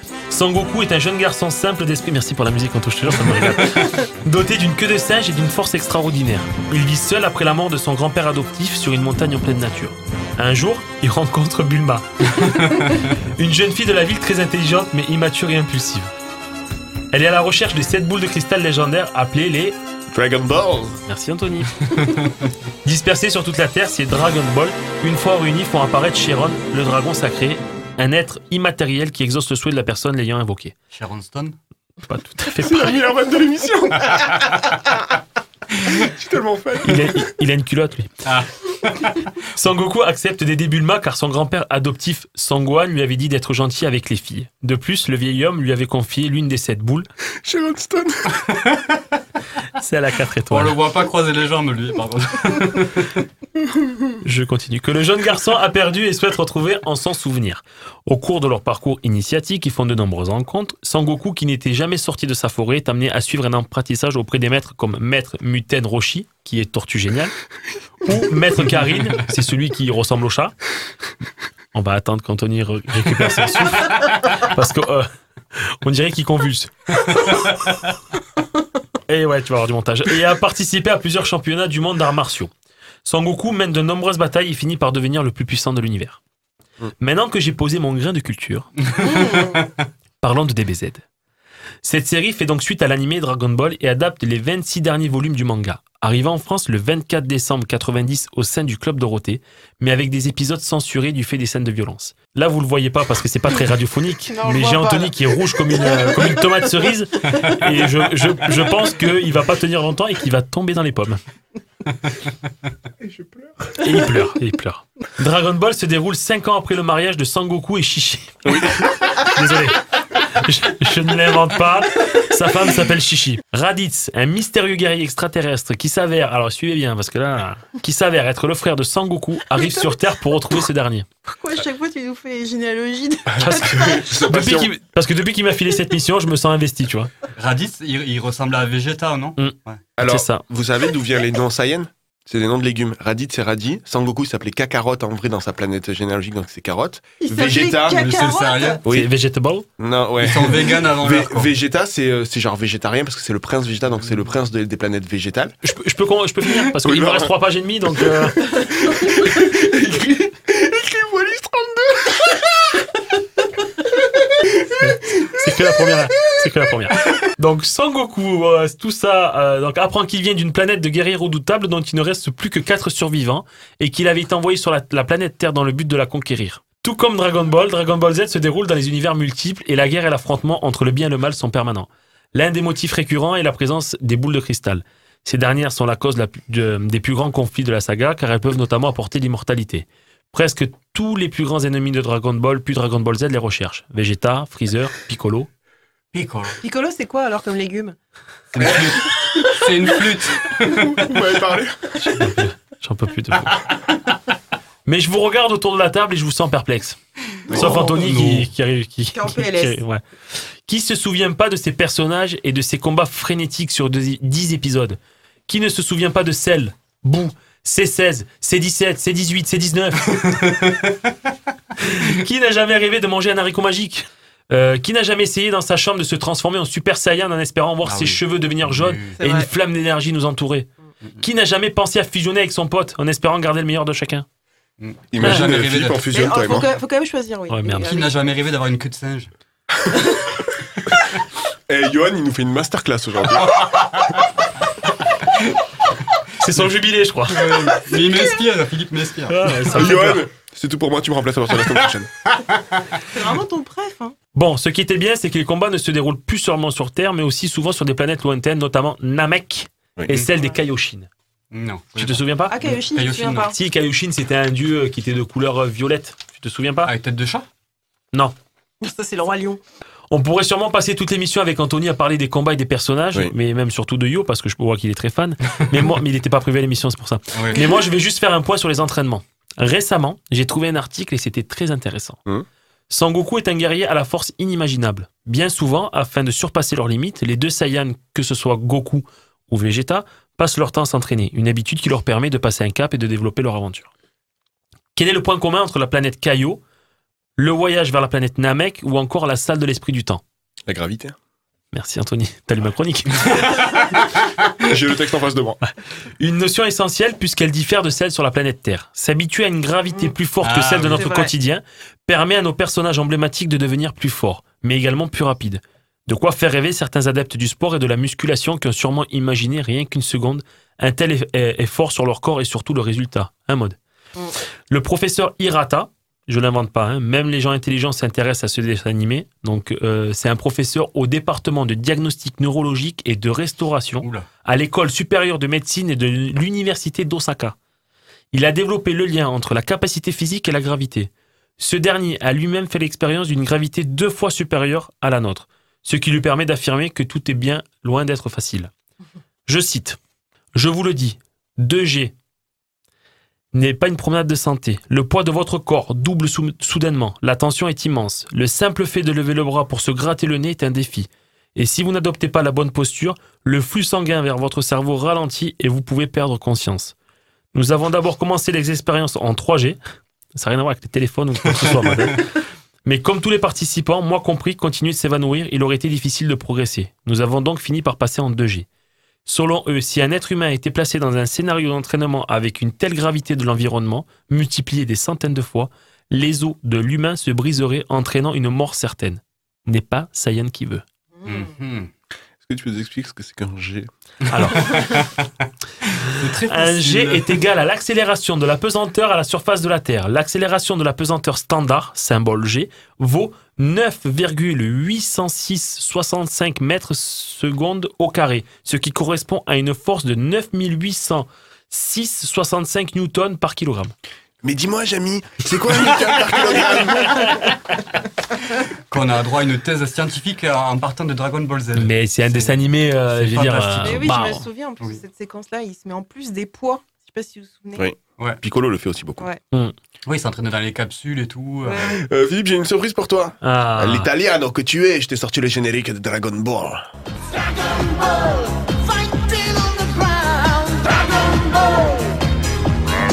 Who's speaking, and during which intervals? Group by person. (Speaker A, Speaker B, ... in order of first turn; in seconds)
Speaker A: 0.3-12.3, 13.3-16.1, 17.1-19.8, 21.1-21.9, 22.8-30.7, 32.1-33.0, 36.8-38.2, 39.5-47.1, 49.8-50.8, 54.2-67.3, 68.0-70.5, 71.7-77.0, 79.1-82.5, 83.0-86.2, 87.0-88.7, 90.2-91.0, 91.8-111.2, 113.8-131.1, 133.4-137.1, 139.4-140.4, 148.9-149.7, 155.6-158.5, 164.8-195.5, 202.0-203.6, 204.8-207.0, 207.5-210.0, 210.7-220.4, 221.8-234.2, 235.2-235.5, 237.5-237.9, 246.4-247.7, 249.3-250.2, 254.3-261.1, 261.9-262.7, 263.5-266.9, 270.1-282.2, 282.9-293.9, 294.9-296.6, 297.4-300.2, 301.7-303.8, 305.6-323.8, 324.7-337.6, 338.3-348.7, 349.5-350.0, 350.5-352.1, 353.5-366.9, 367.5-369.8, 370.3-372.2, 372.8-378.7, 379.2-390.8, 394.3-395.0, 396.4-413.9, 421.7-424.4, 433.4-434.1
Speaker B: 3.5-3.9, 12.4-12.9, 22.0-22.3, 30.9-31.6, 38.2-39.2, 48.5-48.9, 50.5-53.2, 88.8-89.7, 137.3-139.8, 147.9-148.8, 150.2-151.5, 196.1-196.6, 198.5-201.0, 207.5-208.5, 220.2-220.9, 227.8-229.2, 234.8-236.0, 237.7-239.3, 247.3-249.7, 261.5-263.5, 266.8-267.4, 277.3-277.6, 310.4-311.1, 391.2-391.9, 394.5-395.2, 395.8-397.4, 418.9-424.1, 430.1-432.0
Speaker C: 20.1-21.0, 32.6-34.5, 35.9-37.2, 47.4-48.4, 113.0-113.7, 118.5-118.7, 133.3-134.7, 140.0-148.1, 149.8-155.5, 156.8-157.3, 158.4-162.4, 200.8-202.0, 235.1-236.7, 241.7-243.6, 249.7-252.1, 300.7-301.1, 304.6-305.6, 392.4-393.9, 414.4-417.3, 427.8-429.3, 432.0-436.8
Speaker D: 89.0-89.6, 104.3-106.4, 131.2-134.0, 147.2-148.8, 196.6-197.9, 209.1-209.8, 229.2-229.5, 236.1-238.1, 253.1-254.2, 262.5-263.5, 268.8-269.6, 310.9-311.3, 423.8-427.8, 431.6-432.0
Speaker E: 437.3-442.1